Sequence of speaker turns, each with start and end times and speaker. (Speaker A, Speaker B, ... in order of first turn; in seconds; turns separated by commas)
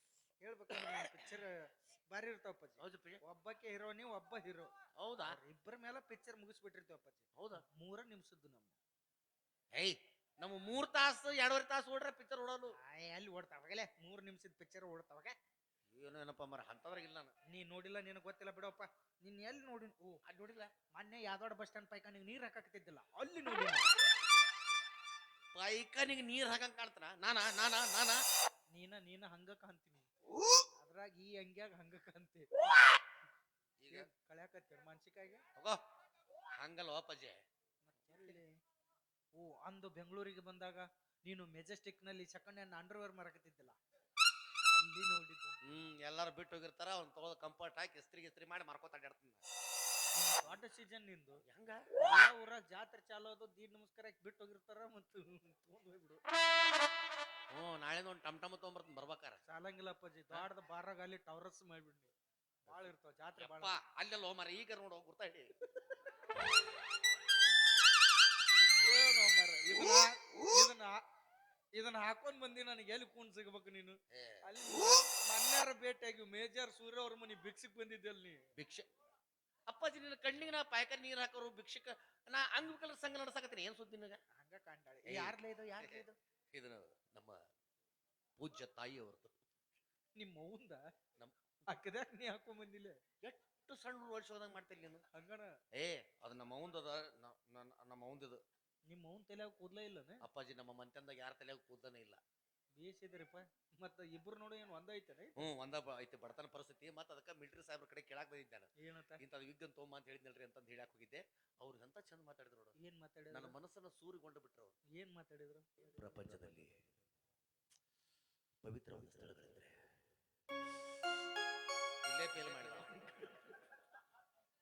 Speaker A: 0.4-4.7, Speaker B: 0.7-1.3, Speaker B: 2.8-3.2, Speaker B: 5.0-5.4, Speaker A: 5.2-8.7, Speaker B: 7.3-7.6, Speaker B: 9.7-12.8, Speaker A: 12.7-15.3, Speaker B: 15.9-17.3, Speaker A: 17.5-20.2, Speaker B: 20.2-20.7, Speaker A: 20.9-23.9, Speaker B: 25.5-28.2, Speaker A: 28.7-30.1, Speaker A: 30.7-32.7, Speaker B: 33.8-34.1, Speaker A: 33.9-35.4, Speaker B: 36.6-37.4, Speaker A: 37.8-38.6, Speaker A: 39.4-43.8, Speaker A: 44.7-45.6, Speaker B: 45.6-49.4, Speaker A: 50.1-51.4, Speaker B: 51.4-51.9, Speaker A: 52.0-56.2, Speaker B: 57.5-59.4, Speaker A: 59.5-62.1, Speaker A: 62.6-63.8, Speaker B: 62.7-65.5, Speaker A: 68.7-71.0, Speaker A: 71.7-78.5, Speaker B: 74.1-74.4, Speaker B: 78.5-78.9, Speaker B: 79.7-84.2, Speaker A: 84.3-86.2, Speaker B: 85.0-87.4, Speaker B: 88.4-89.4, Speaker A: 90.2-90.8, Speaker A: 91.7-93.0, Speaker B: 93.2-95.0, Speaker A: 95.1-95.5, Speaker B: 95.7-98.4, Speaker A: 98.9-100.2, Speaker B: 100.2-102.2, Speaker A: 102.7-105.4, Speaker B: 105.4-112.7, Speaker A: 108.8-109.2, Speaker A: 112.8-113.5, Speaker B: 113.3-114.8, Speaker A: 114.9-116.4, Speaker B: 116.0-116.8, Speaker B: 118.6-119.8, Speaker B: 122.0-123.1